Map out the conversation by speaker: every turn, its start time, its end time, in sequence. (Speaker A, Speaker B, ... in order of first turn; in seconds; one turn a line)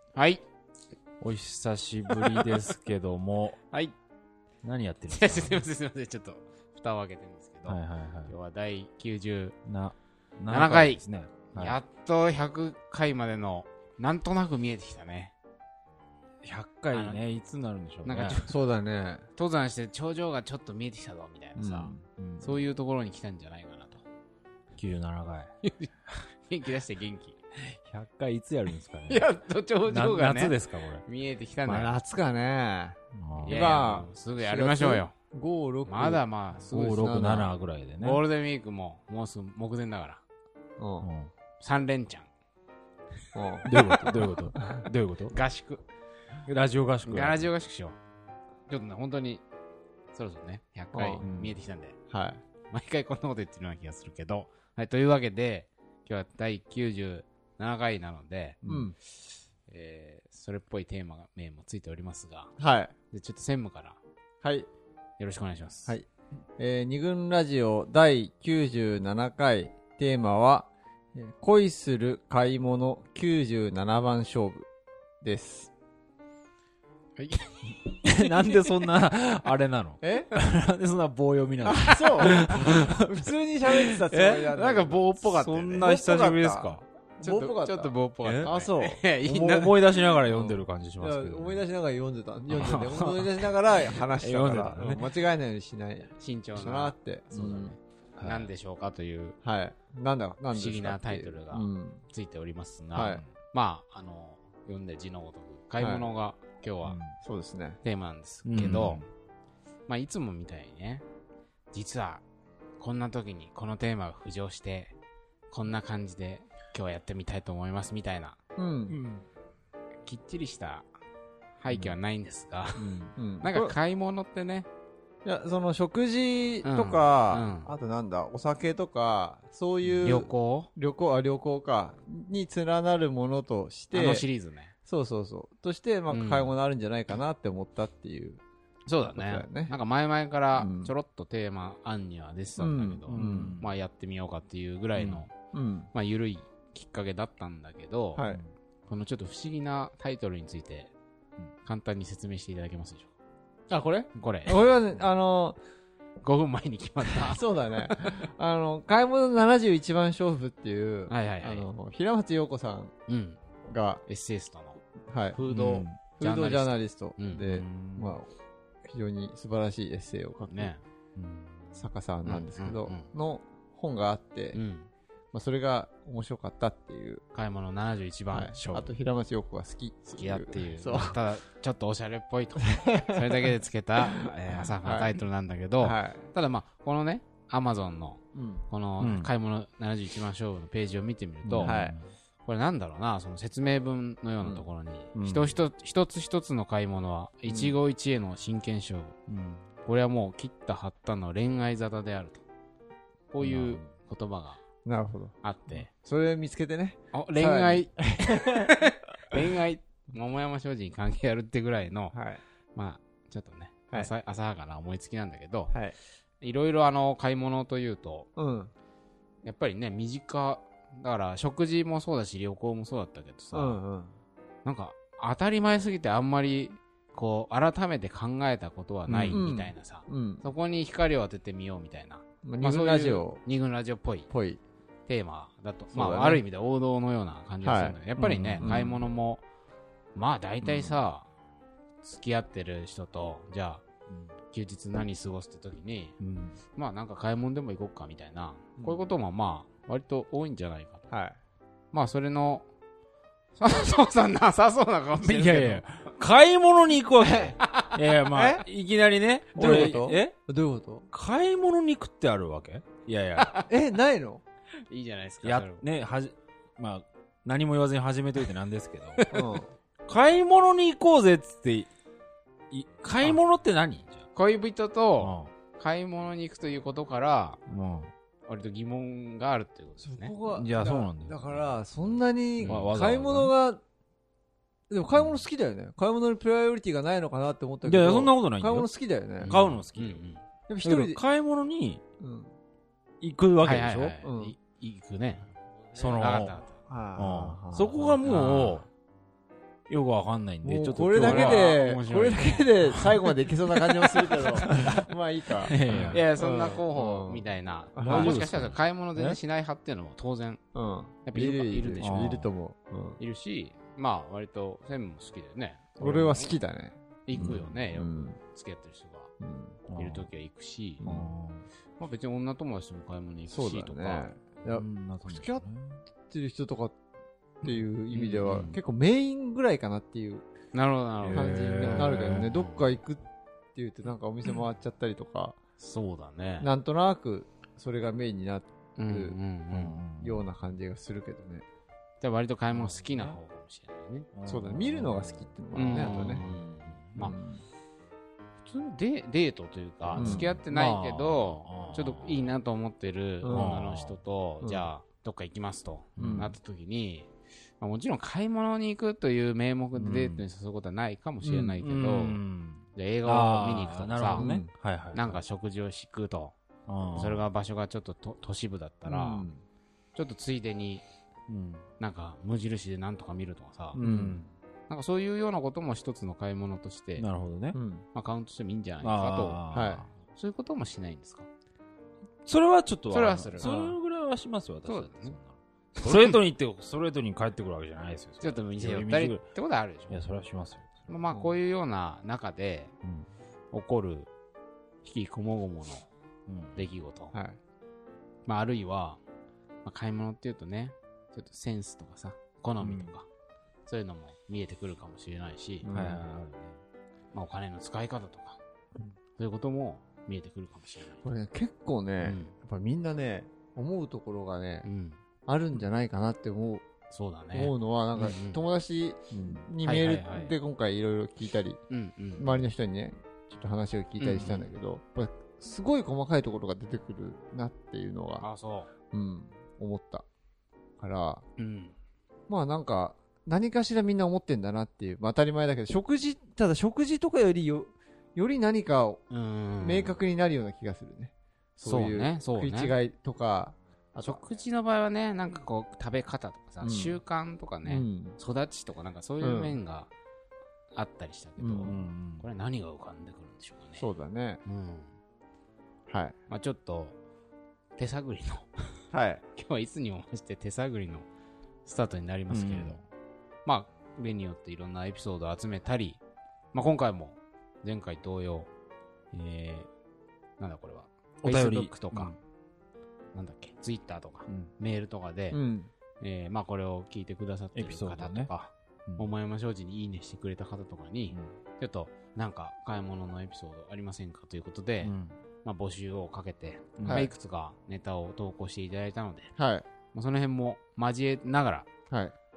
Speaker A: 0.1-0.4
Speaker B: 1.2-3.6
Speaker A: 2.2-2.5
Speaker B: 4.6-5.6
Speaker A: 5.1-9.6
Speaker B: 7.7-8.3
Speaker B: 9.7-11.8
Speaker A: 10.5-11.0
Speaker A: 11.5-15.3
Speaker B: 16.4-18.4
Speaker A: 16.9-17.2
Speaker A: 18.0-18.5
Speaker C: 18.4-19.2
Speaker A: 19.3-24.0
Speaker C: 21.6-22.0
Speaker B: 22.1-22.6
Speaker B: 24.8-25.5
Speaker A: 25.6-27.4
Speaker B: 27.8-29.3
Speaker A: 29.1-31.9
Speaker B: 29.9-31.0
Speaker C: 31.6-37.5
Speaker B: 33.1-33.7
Speaker A: 33.4-35.1
Speaker A: 35.9-37.0
Speaker B: 36.7-38.2
Speaker A: 38.0-40.2
Speaker C: 40.8-41.1
Speaker B: 41.0-41.3
Speaker A: 41.6-42.3
Speaker C: 43.3-43.7
Speaker B: 43.6-45.3
Speaker A: 45.3-45.8
Speaker B: 46.5-47.4
Speaker A: 47.0-48.0
Speaker A: 48.7-49.4
Speaker A: 50.1-52.0
Speaker C: 50.9-51.2
Speaker B: 51.2-51.6
Speaker C: 52.1-52.4
Speaker A: 52.7-58.6
Speaker B: 58.6-58.9
Speaker C: 58.6-59.0
Speaker A: 59.7-62.5
Speaker C: 62.6-62.9
Speaker A: 63.1-64.0
Speaker C: 64.4-64.7
Speaker A: 65.2-66.0
Speaker C: 66.6-74.7
Speaker C: 75.2-75.7
Speaker A: 77.2-77.8
Speaker B: 78.0-84.0
Speaker C: 80.0-80.3
Speaker C: 81.6-85.1
Speaker A: 84.1-85.9
Speaker B: 85.2-86.8
Speaker C: 85.8-89.0
Speaker A: 87.2-89.8
Speaker B: 88.2-88.5
Speaker B: 89.2-91.6
Speaker C: 90.2-97.7
Speaker B: 92.5-95.1
Speaker A: 96.1-99.4
Speaker B: 98.2-98.5
Speaker C: 99.4-102.0
Speaker A: 100.5-107.0
Speaker C: 102.9-103.2
Speaker C: 105.8-106.1
Speaker B: 106.8-107.2
Speaker C: 107.2-107.8
Speaker A: 107.8-109.0
Speaker B: 108.5-109.0
Speaker A: 109.9-111.0
Speaker A: 111.7-112.2
Speaker A: 112.8-114.9
Speaker A: 115.5-118.4
Speaker C: 118.6-119.0
Speaker A: 120.0-120.9
Speaker A: 121.6-124.7
Speaker C: 122.8-123.8
Speaker C: 125.2-134.3
Speaker A: 126.6-127.7
Speaker A: 130.0-130.7
Speaker A: 133.9-134.7
Speaker C: 134.8-138.4
Speaker A: 136.1-136.5
Speaker A: 138.9-145.3
Speaker C: 139.1-139.7
Speaker C: 140.5-140.9
Speaker C: 142.6-143.6
Speaker B: 143.1-143.7
Speaker C: 145.0-145.9
Speaker A: 145.9-148.2
Speaker C: 148.2-148.4
Speaker A: 148.9-150.9
Speaker A: 151.6-153.1
Speaker C: 153.7-155.6
Speaker A: 154.2-154.7
Speaker A: 156.2-158.2
Speaker C: 157.1-162.9
Speaker A: 161.1-161.7
Speaker A: 163.1-163.4
Speaker C: 163.7-164.0
Speaker A: 164.1-167.4
Speaker C: 165.1-165.4
Speaker B: 165.5-166.0
Speaker C: 166.2-168.3
Speaker B: 167.4-168.1
Speaker C: 168.8-170.7
Speaker A: 170.5-170.8
Speaker B: 171.2-171.8
Speaker C: 171.7-174.6
Speaker A: 172.2-173.1
Speaker A: 174.5-174.9
Speaker C: 175.3-177.2
Speaker A: 177.3-178.9
Speaker C: 178.3-181.2
Speaker A: 180.1-191.7
Speaker C: 184.5-185.2
Speaker C: 185.8-186.3
Speaker C: 188.3-188.6
Speaker B: 189.0-189.3
Speaker B: 191.4-192.1
Speaker C: 191.6-191.9
Speaker A: 192.4-199.2
Speaker B: 195.1-195.5
Speaker C: 197.5-197.7
Speaker B: 199.3-199.6
Speaker A: 199.8-202.4
Speaker A: 203.3-204.6
Speaker B: 203.4-203.8
Speaker C: 204.8-208.7
Speaker A: 205.4-205.9
Speaker A: 207.1-212.2
Speaker C: 212.1-212.4
Speaker A: 212.7-215.7
Speaker A: 216.4-218.3
Speaker C: 218.3-218.7
Speaker A: 219.4-223.8
Speaker C: 223.5-224.1
Speaker A: 224.6-234.3
Speaker C: 229.1-230.5
Speaker C: 232.4-233.4
Speaker C: 234.3-234.6
Speaker A: 235.1-239.4
Speaker C: 235.9-236.4
Speaker C: 237.6-238.9
Speaker B: 238.2-238.9
Speaker A: 240.1-241.3
Speaker C: 240.6-241.0
Speaker A: 242.0-243.8
Speaker B: 244.1-244.3
Speaker A: 244.5-246.2
Speaker B: 246.2-246.6
Speaker A: 246.7-251.1
Speaker C: 251.1-251.4
Speaker A: 251.9-252.7
Speaker A: 253.6-255.8
Speaker B: 255.2-260.4
Speaker C: 257.2-257.5
Speaker A: 257.6-258.0
Speaker C: 258.3-258.6
Speaker C: 259.5-261.1
Speaker B: 261.1-263.6
Speaker A: 263.4-263.6
Speaker C: 263.7-264.4
Speaker A: 264.9-265.8
Speaker B: 265.4-269.2
Speaker C: 269.3-269.7
Speaker B: 270.1-271.9
Speaker B: 272.7-274.2
Speaker A: 274.3-277.6
Speaker B: 275.2-275.5
Speaker B: 277.7-278.1
Speaker A: 278.5-280.3
Speaker C: 280.0-283.8
Speaker B: 280.4-281.8
Speaker B: 282.6-283.5
Speaker C: 284.9-289.6
Speaker B: 287.8-288.9
Speaker A: 289.4-290.4
Speaker B: 289.5-290.2
Speaker C: 290.7-291.2
Speaker B: 290.8-292.0
Speaker C: 292.2-292.5
Speaker B: 293.2-294.1
Speaker A: 293.6-296.8
Speaker C: 294.2-294.5
Speaker B: 295.9-296.6
Speaker C: 296.9-298.2
Speaker B: 297.1-298.9
Speaker A: 298.2-298.8
Speaker B: 299.9-301.8
Speaker C: 300.6-308.4
Speaker A: 301.1-302.7
Speaker B: 303.8-305.0
Speaker B: 305.6-306.2
Speaker A: 306.1-310.6
Speaker B: 308.0-309.4
Speaker C: 310.7-313.2
Speaker A: 311.3-312.2
Speaker B: 312.0-312.5
Speaker A: 313.2-316.5
Speaker C: 316.0-318.4
Speaker A: 317.2-319.3
Speaker C: 319.4-319.8
Speaker B: 319.9-320.3
Speaker A: 319.9-321.0
Speaker C: 321.0-321.3
Speaker B: 321.0-321.6
Speaker A: 322.0-324.3
Speaker C: 323.5-325.6
Speaker B: 324.7-326.0
Speaker C: 326.3-326.9
Speaker C: 327.6-330.4
Speaker A: 328.1-328.4
Speaker B: 328.4-328.8
Speaker A: 330.7-332.8
Speaker B: 331.2-332.6
Speaker C: 331.3-335.6
Speaker A: 335.8-336.7
Speaker C: 336.6-339.4
Speaker A: 338.9-340.0
Speaker B: 339.7-340.4
Speaker C: 340.1-341.6
Speaker A: 342.2-344.3
Speaker B: 342.7-343.4
Speaker B: 344.3-347.2
Speaker C: 344.4-346.5
Speaker A: 345.7-347.3
Speaker C: 347.1-347.6
Speaker A: 348.6-362.4
Speaker B: 350.1-352.5
Speaker C: 350.2-350.5
Speaker C: 353.4-353.8
Speaker B: 353.5-354.2
Speaker C: 354.6-354.9
Speaker B: 356.2-356.5
Speaker C: 356.2-356.5
Speaker B: 359.9-360.4
Speaker C: 361.4-361.8
Speaker B: 361.8-365.4
Speaker A: 362.9-364.5
Speaker C: 364.3-364.7
Speaker A: 365.1-366.5
Speaker B: 366.9-367.4
Speaker A: 367.1-369.5
Speaker C: 369.1-369.6
Speaker A: 370.1-371.0
Speaker B: 371.5-371.9
Speaker A: 372.0-374.0
Speaker B: 373.9-374.5
Speaker C: 374.0-374.4
Speaker A: 374.9-377.3
Speaker B: 377.2-377.8
Speaker C: 377.7-378.1
Speaker A: 378.1-379.6
Speaker B: 379.0-380.1
Speaker C: 379.7-380.1
Speaker A: 380.1-381.5
Speaker B: 382.4-389.4
Speaker A: 383.1-383.9
Speaker C: 383.6-383.9
Speaker A: 384.9-385.4
Speaker A: 386.0-386.4
Speaker A: 388.4-390.2
Speaker B: 390.1-391.1
Speaker A: 391.1-392.9
Speaker A: 393.7-394.3
Speaker A: 395.0-396.1
Speaker B: 396.5-396.9
Speaker A: 396.7-397.4
Speaker C: 397.3-397.6
Speaker A: 398.4-399.2
Speaker A: 399.8-403.3
Speaker B: 402.8-403.1
Speaker A: 403.9-405.9
Speaker C: 405.8-406.2
Speaker B: 405.9-406.8
Speaker A: 407.3-408.6
Speaker A: 409.4-411.2
Speaker C: 411.2-414.9
Speaker A: 412.2-412.5
Speaker A: 414.8-415.2
Speaker C: 415.4-416.8
Speaker A: 417.1-418.6
Speaker C: 417.5-421.8
Speaker B: 419.5-420.5
Speaker A: 421.9-422.6
Speaker C: 422.4-428.4
Speaker A: 424.2-424.7
Speaker A: 428.4-428.9
Speaker C: 429.1-430.2
Speaker C: 431.0-431.4
Speaker A: 431.6-431.9
Speaker C: 432.5-439.2
Speaker A: 439.3-440.2
Speaker C: 439.8-444.4
Speaker A: 441.8-442.9
Speaker A: 444.2-450.1
Speaker C: 446.8-447.2
Speaker C: 447.8-448.4
Speaker C: 449.4-449.8
Speaker A: 450.9-454.0
Speaker C: 451.6-451.9
Speaker B: 451.8-452.4
Speaker C: 454.0-454.6
Speaker A: 454.6-455.1
Speaker C: 456.1-456.4
Speaker A: 456.5-457.2
Speaker A: 458.0-458.8
Speaker C: 459.1-459.4
Speaker A: 459.5-461.3
Speaker A: 461.8-463.0
Speaker B: 462.5-463.0
Speaker A: 463.6-466.2
Speaker A: 466.7-468.7
Speaker A: 469.3-469.9
Speaker A: 470.6-472.3
Speaker B: 471.4-472.4
Speaker A: 473.3-475.6
Speaker C: 475.5-475.9
Speaker A: 476.2-489.5
Speaker B: 477.8-478.5
Speaker B: 485.0-485.4
Speaker B: 487.0-487.3
Speaker C: 487.0-487.3
Speaker C: 489.6-489.8
Speaker A: 490.1-491.9
Speaker C: 492.1-492.3